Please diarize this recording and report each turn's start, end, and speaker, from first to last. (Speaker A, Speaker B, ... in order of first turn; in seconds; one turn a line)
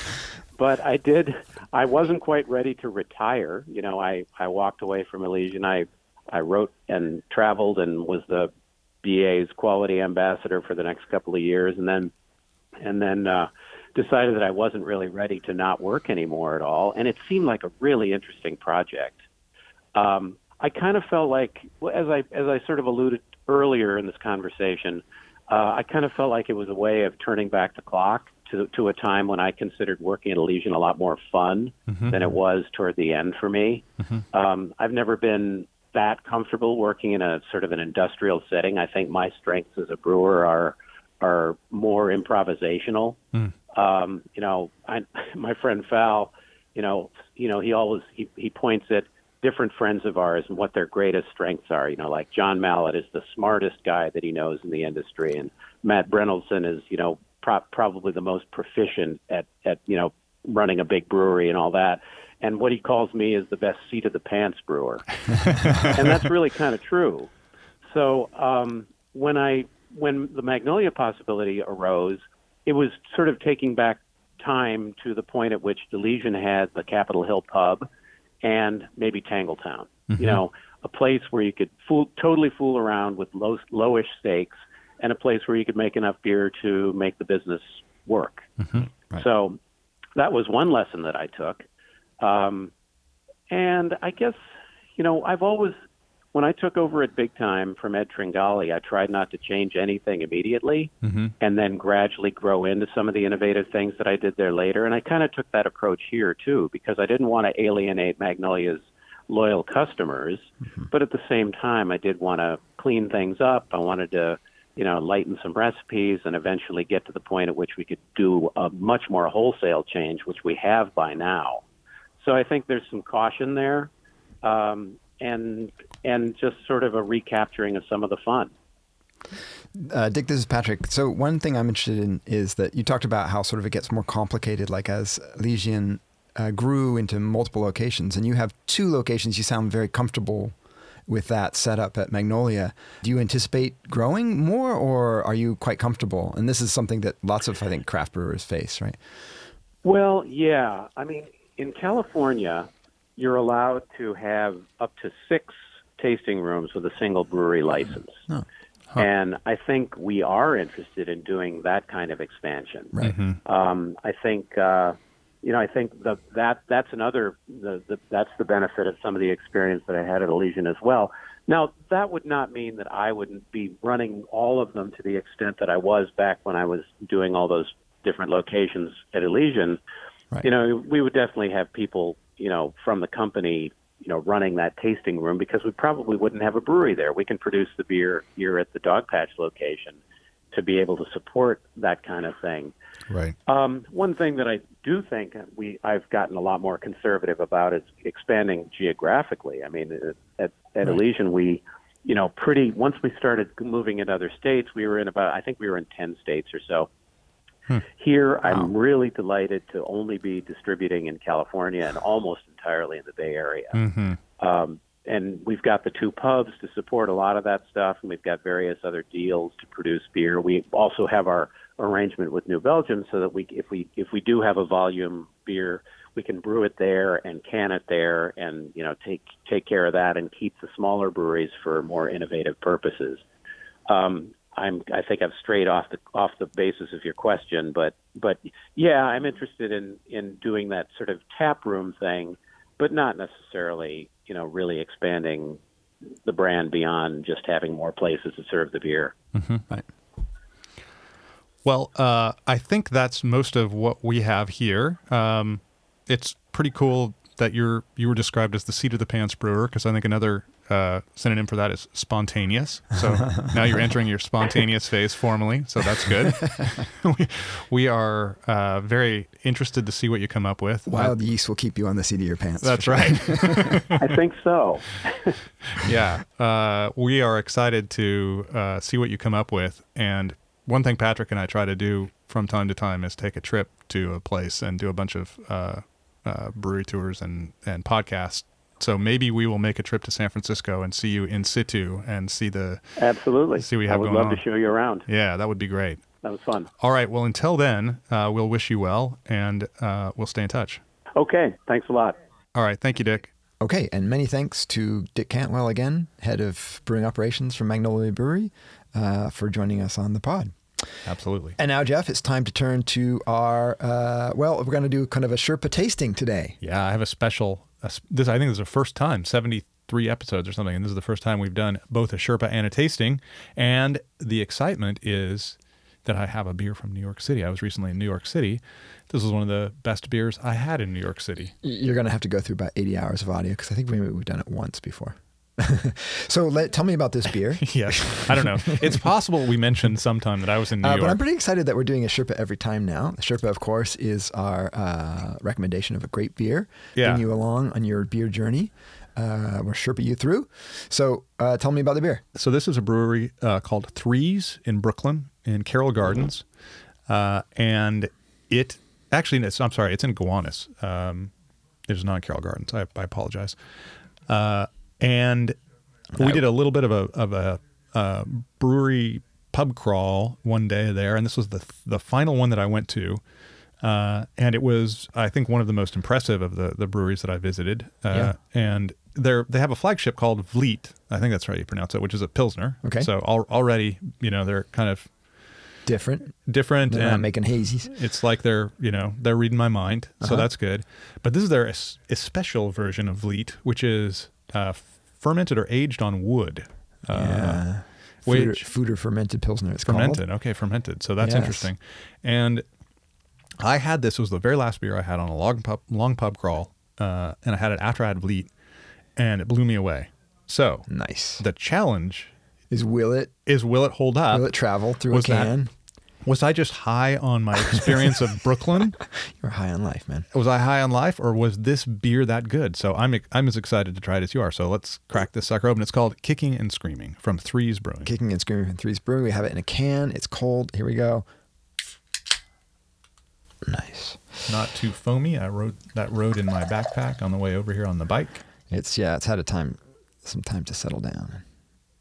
Speaker A: 0.5-8.5
Speaker A: 9.0-12.1
Speaker A: 12.8-19.2
Speaker A: 19.9-43.2
Speaker B: 31.9-32.2
Speaker A: 43.7-65.1
Speaker A: 65.7-67.3
Speaker A: 67.9-77.9
Speaker A: 78.4-88.5
Speaker B: 80.1-80.4
Speaker B: 88.6-88.8
Speaker A: 89.1-89.6
Speaker A: 90.2-91.6
Speaker A: 92.2-92.7
Speaker A: 93.5-94.4
Speaker A: 95.0-95.7
Speaker A: 96.3-121.6
Speaker B: 101.0-101.3
Speaker A: 122.2-123.9
Speaker A: 124.4-128.5
Speaker C: 129.7-140.5
Speaker C: 141.1-149.0
Speaker A: 149.8-158.2
Speaker A: 158.9-162.9
Speaker B: 163.0-163.4
Speaker A: 163.4-179.8
Speaker A: 180.4-190.0
Speaker A: 190.5-192.7
Speaker B: 193.1-193.3
Speaker A: 193.5-206.9
Speaker A: 207.9-213.8
Speaker B: 213.7-214.2
Speaker A: 214.4-233.2
Speaker A: 233.9-245.6
Speaker A: 246.2-249.1
Speaker B: 249.3-249.7
Speaker B: 251.6-271.1
Speaker C: 263.4-263.8
Speaker C: 270.9-273.8
Speaker B: 272.6-274.1
Speaker A: 274.0-275.4
Speaker B: 275.7-293.0
Speaker A: 293.0-295.1
Speaker B: 293.6-294.4
Speaker B: 295.1-296.0
Speaker A: 296.2-296.7
Speaker B: 296.8-300.8
Speaker A: 301.1-302.1
Speaker B: 302.5-303.3
Speaker C: 303.6-311.0
Speaker B: 311.1-311.6
Speaker C: 311.6-316.6
Speaker B: 316.6-331.5
Speaker C: 331.6-339.0
Speaker B: 337.6-341.2
Speaker C: 340.8-352.2
Speaker B: 346.9-347.2
Speaker B: 352.3-356.4
Speaker B: 357.1-361.3
Speaker B: 361.9-363.6
Speaker B: 364.3-365.6
Speaker C: 366.1-366.4
Speaker B: 366.1-373.2
Speaker B: 373.8-385.1
Speaker C: 382.8-383.1
Speaker C: 385.9-386.4
Speaker B: 386.5-397.7
Speaker C: 386.9-387.9
Speaker C: 397.1-400.2
Speaker B: 398.2-398.6
Speaker B: 399.9-402.6
Speaker C: 401.2-401.7
Speaker B: 403.6-408.5
Speaker B: 409.1-412.3
Speaker C: 410.9-411.4
Speaker C: 412.7-413.3
Speaker B: 413.4-414.5
Speaker C: 414.3-415.7
Speaker B: 415.1-415.5
Speaker B: 416.2-419.0
Speaker C: 419.3-420.2
Speaker B: 420.3-428.1
Speaker C: 428.0-431.2
Speaker C: 433.6-434.2
Speaker B: 434.5-438.4
Speaker C: 438.7-441.4